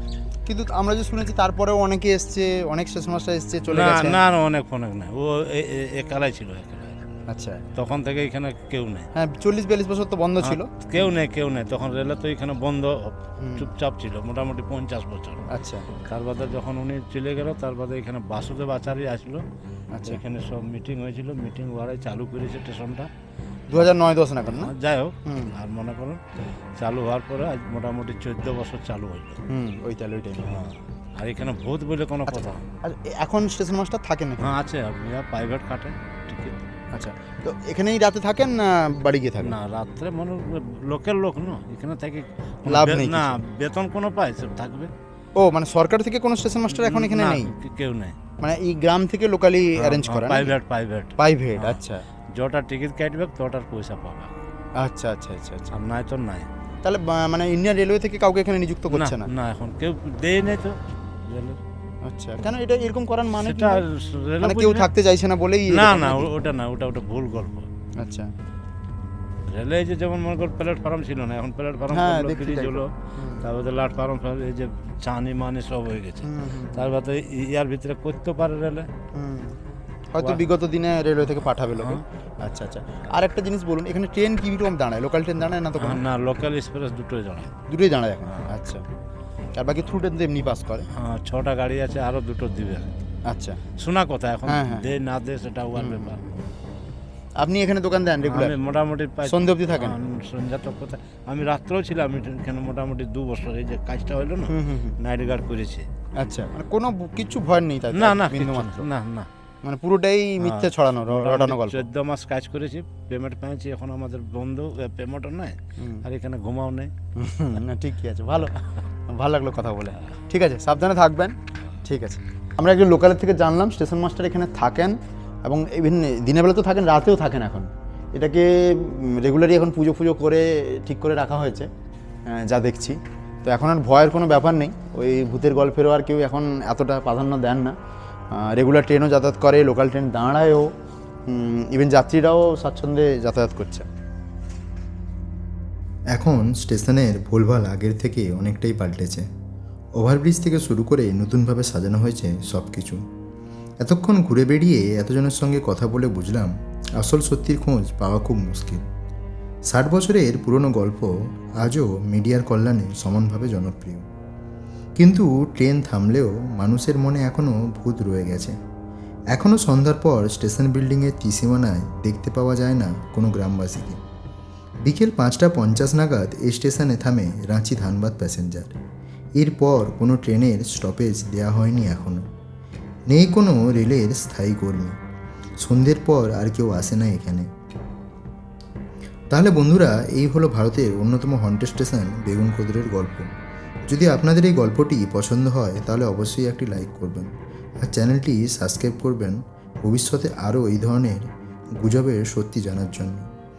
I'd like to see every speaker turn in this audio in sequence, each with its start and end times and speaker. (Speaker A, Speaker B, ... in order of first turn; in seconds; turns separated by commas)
Speaker A: 0.5-4.2, Speaker B: 3.7-7.1, Speaker A: 7.3-7.6, Speaker B: 7.7-9.1, Speaker A: 9.1-11.1, Speaker B: 10.4-15.5, Speaker A: 13.4-13.7, Speaker A: 15.5-15.9, Speaker B: 16.0-19.4, Speaker A: 19.9-20.2, Speaker B: 20.0-23.1, Speaker A: 23.7-24.7, Speaker B: 24.4-26.2, Speaker A: 25.3-25.5, Speaker B: 26.8-29.4, Speaker A: 29.5-30.6, Speaker B: 30.5-32.7, Speaker A: 32.3-34.5, Speaker B: 34.4-36.7, Speaker A: 36.9-39.5, Speaker B: 39.4-44.9, Speaker A: 42.6-43.4, Speaker A: 45.3-47.5, Speaker B: 46.7-48.1, Speaker A: 48.4-50.5, Speaker B: 49.8-51.8, Speaker A: 51.2-52.0, Speaker B: 52.3-54.3, Speaker A: 54.8-55.7, Speaker B: 55.7-56.5, Speaker A: 56.8-59.3, Speaker B: 58.9-61.6, Speaker A: 62.0-63.8, Speaker B: 63.4-64.9, Speaker A: 64.4-66.3, Speaker B: 65.7-67.7, Speaker A: 68.0-68.3, Speaker B: 69.5-78.9, Speaker A: 71.9-73.5, Speaker A: 76.2-76.9, Speaker A: 79.1-79.6, Speaker A: 80.1-86.0, Speaker B: 81.7-82.0, Speaker B: 85.8-87.5, Speaker A: 87.7-88.8, Speaker A: 89.5-90.9, Speaker B: 90.9-92.9, Speaker A: 93.2-93.6, Speaker B: 93.8-96.2, Speaker A: 94.5-94.9, Speaker A: 95.8-96.2, Speaker A: 97.4-98.5, Speaker B: 98.2-105.9, Speaker A: 99.2-100.0, Speaker A: 104.5-105.0, Speaker A: 106.1-108.9, Speaker B: 107.9-109.3, Speaker A: 109.6-111.9, Speaker B: 110.4-116.9, Speaker A: 117.2-118.6, Speaker A: 119.1-131.7, Speaker A: 132.3-137.8, Speaker A: 138.3-140.7, Speaker A: 141.3-143.9, Speaker C: 146.1-149.2, Speaker C: 150.0-153.0, Speaker C: 153.8-158.8, Speaker C: 159.7-164.1, Speaker C: 165.0-168.6, Speaker C: 169.3-174.0, Speaker C: 174.8-178.8, Speaker C: 179.4-182.2, Speaker C: 183.1-184.9, Speaker C: 185.6-187.5, Speaker C: 189.3-193.3, Speaker C: 193.9-197.3, Speaker C: 197.8-201.3, Speaker C: 201.8-203.3